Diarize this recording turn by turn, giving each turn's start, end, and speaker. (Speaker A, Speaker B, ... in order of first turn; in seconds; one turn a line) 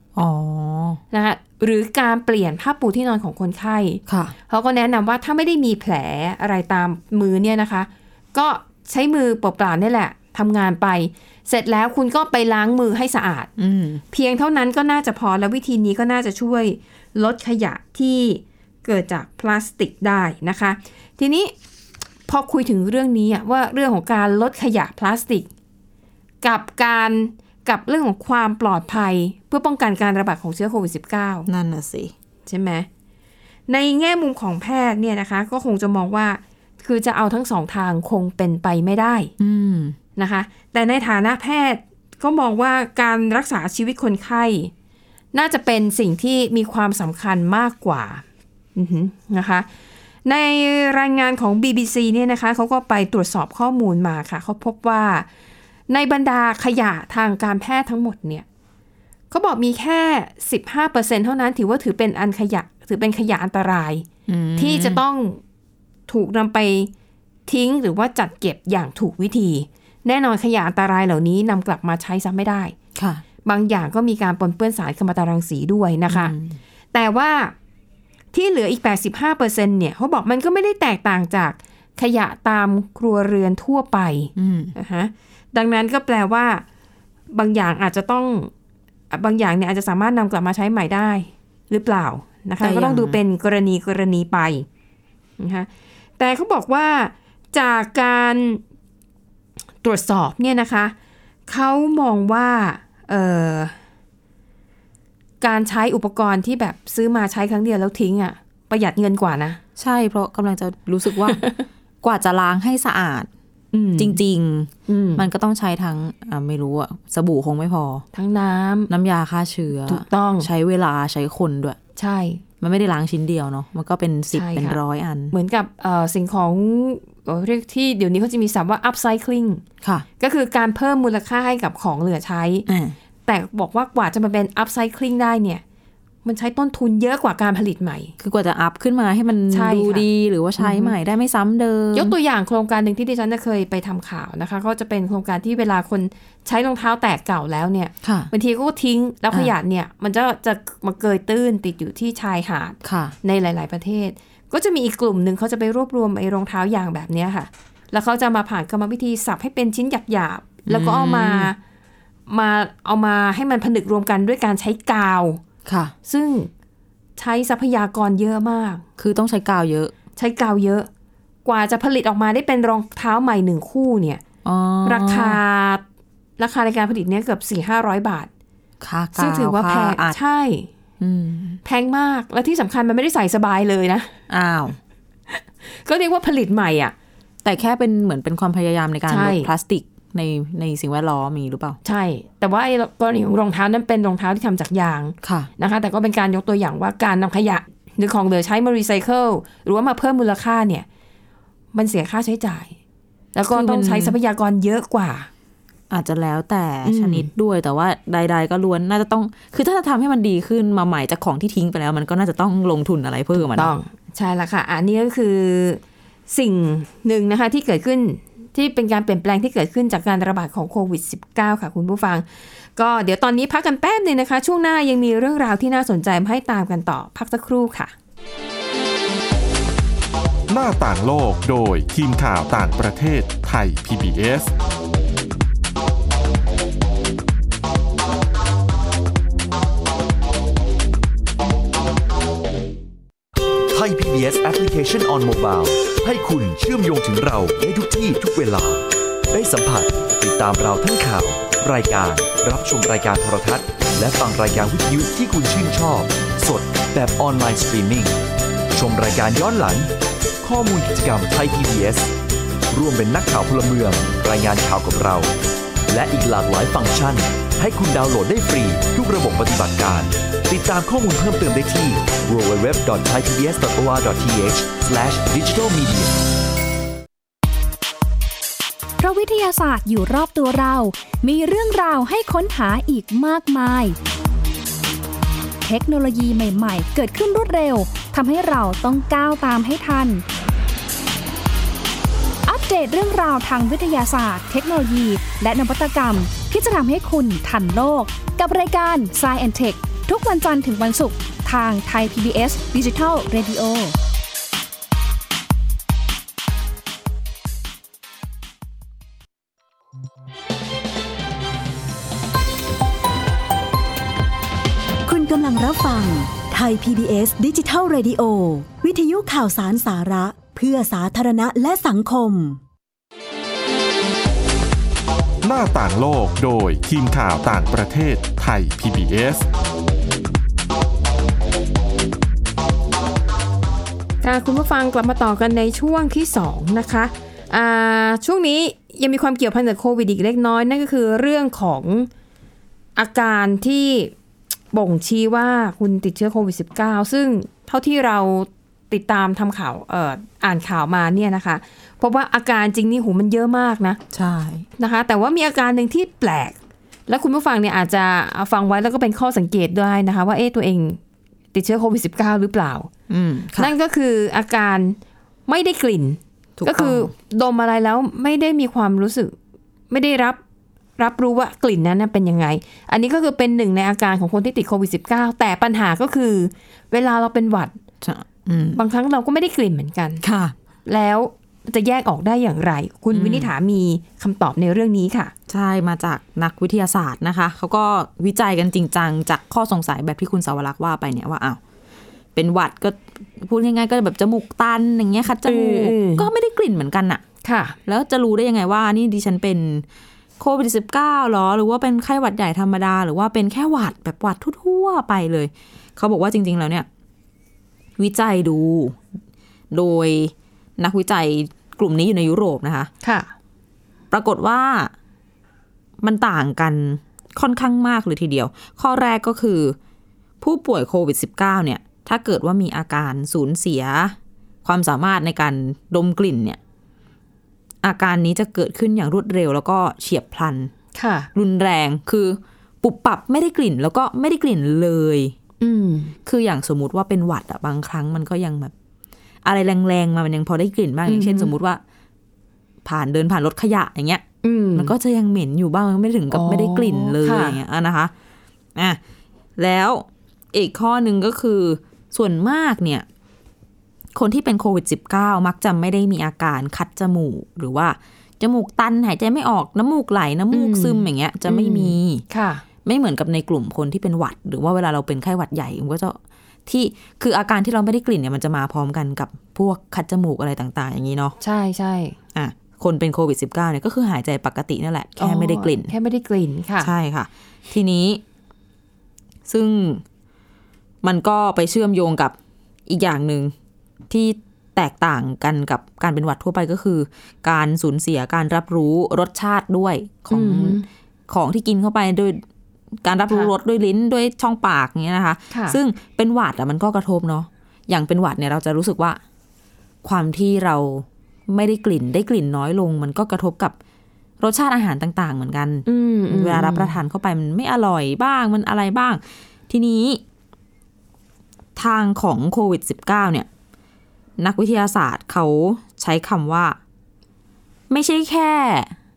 Speaker A: 0.1-1.0
Speaker B: 1.1-13.5
Speaker A: 4.1-4.3
Speaker A: 13.6-14.0
Speaker B: 14.1-21.5
Speaker B: 22.3-25.5
Speaker B: 26.4-31.5
Speaker A: 31.5-32.1
Speaker B: 32.5-32.9
Speaker B: 33.7-39.3
Speaker A: 39.4-40.0
Speaker B: 40.1-44.7
Speaker B: 45.3-48.2
Speaker B: 48.7-49.7
Speaker B: 50.2-55.3
Speaker B: 55.9-58.4
Speaker B: 59.3-64.0
Speaker A: 64.3-65.0
Speaker B: 64.6-65.4
Speaker B: 66.1-66.9
Speaker B: 67.5-72.7
Speaker A: 72.9-73.2
Speaker B: 73.4-76.3
Speaker A: 76.1-76.6
Speaker B: 76.9-77.5
Speaker B: 78.3-86.6
Speaker A: 84.3-84.7
Speaker B: 87.3-88.5
Speaker B: 89.1-94.7
Speaker A: 92.6-93.2
Speaker B: 95.4-95.7
Speaker B: 96.2-98.6
Speaker B: 99.8-100.9
Speaker B: 101.5-103.7
Speaker B: 105.4-109.6
Speaker A: 109.8-111.4
Speaker B: 111.3-111.6
Speaker A: 112.0-113.3
Speaker B: 113.7-114.2
Speaker A: 114.0-118.0
Speaker B: 114.9-115.2
Speaker B: 118.1-118.9
Speaker A: 118.9-121.8
Speaker B: 119.8-120.5
Speaker B: 122.0-122.4
Speaker A: 122.6-125.3
Speaker B: 124.3-124.8
Speaker B: 125.3-129.6
Speaker B: 130.2-132.7
Speaker A: 132.7-132.9
Speaker B: 133.2-135.6
Speaker B: 136.2-138.1
Speaker A: 138.2-142.1
Speaker B: 139.5-140.1
Speaker B: 140.6-140.9
Speaker B: 141.9-161.6
Speaker A: 148.0-148.3
Speaker A: 152.8-153.1
Speaker A: 160.7-161.5
Speaker B: 162.3-165.4
Speaker A: 165.6-165.9
Speaker B: 166.0-166.5
Speaker B: 167.2-168.8
Speaker A: 169.0-169.9
Speaker B: 170.2-170.9
Speaker B: 171.4-174.2
Speaker A: 174.4-175.4
Speaker B: 174.8-175.8
Speaker B: 176.4-178.3
Speaker A: 178.8-180.2
Speaker B: 179.1-180.7
Speaker A: 181.0-181.6
Speaker B: 181.6-184.1
Speaker A: 184.3-184.8
Speaker B: 185.3-186.9
Speaker A: 187.4-191.8
Speaker B: 189.1-189.5
Speaker B: 191.8-200.8
Speaker A: 195.2-195.5
Speaker B: 201.7-202.7
Speaker B: 203.3-205.3
Speaker A: 203.5-204.2
Speaker A: 205.9-213.7
Speaker B: 206.8-207.3
Speaker B: 213.3-227.9
Speaker C: 230.5-234.5
Speaker D: 243.7-258.2
Speaker D: 258.7-259.9
Speaker D: 260.4-262.1
Speaker D: 262.7-265.3
Speaker D: 265.9-276.2
Speaker E: 279.0-283.9
Speaker E: 285.6-290.2
Speaker E: 292.4-303.9
Speaker F: 315.1-322.6
Speaker C: 325.4-329.4
Speaker B: 334.2-342.1
Speaker B: 342.9-344.1
Speaker B: 344.7-354.0
Speaker A: 354.1-354.6
Speaker B: 354.8-356.6
Speaker B: 357.1-361.0
Speaker B: 361.5-362.9
Speaker A: 363.1-363.7
Speaker B: 363.6-369.3
Speaker A: 366.6-367.1
Speaker B: 369.9-370.4
Speaker B: 371.0-377.8
Speaker A: 378.0-378.8
Speaker B: 378.7-380.2
Speaker A: 380.2-380.5
Speaker B: 380.9-385.3
Speaker A: 383.1-383.5
Speaker A: 385.5-391.6
Speaker A: 392.3-397.2
Speaker B: 395.4-396.3
Speaker B: 397.4-397.8
Speaker A: 397.9-399.8
Speaker A: 400.4-406.9
Speaker A: 408.0-409.0
Speaker A: 409.7-412.9
Speaker B: 413.0-413.3
Speaker A: 414.1-414.9
Speaker A: 416.0-419.8
Speaker A: 420.4-426.6
Speaker A: 427.8-430.7
Speaker B: 430.9-431.3
Speaker A: 431.3-435.3
Speaker B: 435.6-436.1
Speaker A: 436.2-438.7
Speaker A: 439.4-441.8
Speaker B: 441.1-441.5
Speaker A: 442.8-444.2
Speaker B: 444.4-444.9
Speaker A: 444.8-448.1
Speaker B: 446.3-447.6
Speaker A: 449.6-453.0
Speaker A: 454.1-462.2
Speaker B: 460.5-462.6
Speaker A: 462.8-471.4
Speaker B: 471.4-472.2
Speaker A: 472.3-475.9
Speaker B: 475.2-476.9
Speaker A: 476.8-478.2
Speaker A: 479.5-480.0
Speaker A: 481.0-482.3
Speaker A: 482.9-483.5
Speaker A: 484.1-492.4
Speaker B: 490.3-490.9
Speaker A: 493.0-499.2
Speaker B: 495.5-495.8
Speaker A: 500.0-503.8
Speaker A: 504.4-510.2
Speaker B: 505.9-507.0
Speaker A: 511.8-513.5
Speaker A: 514.4-516.8
Speaker A: 517.9-518.9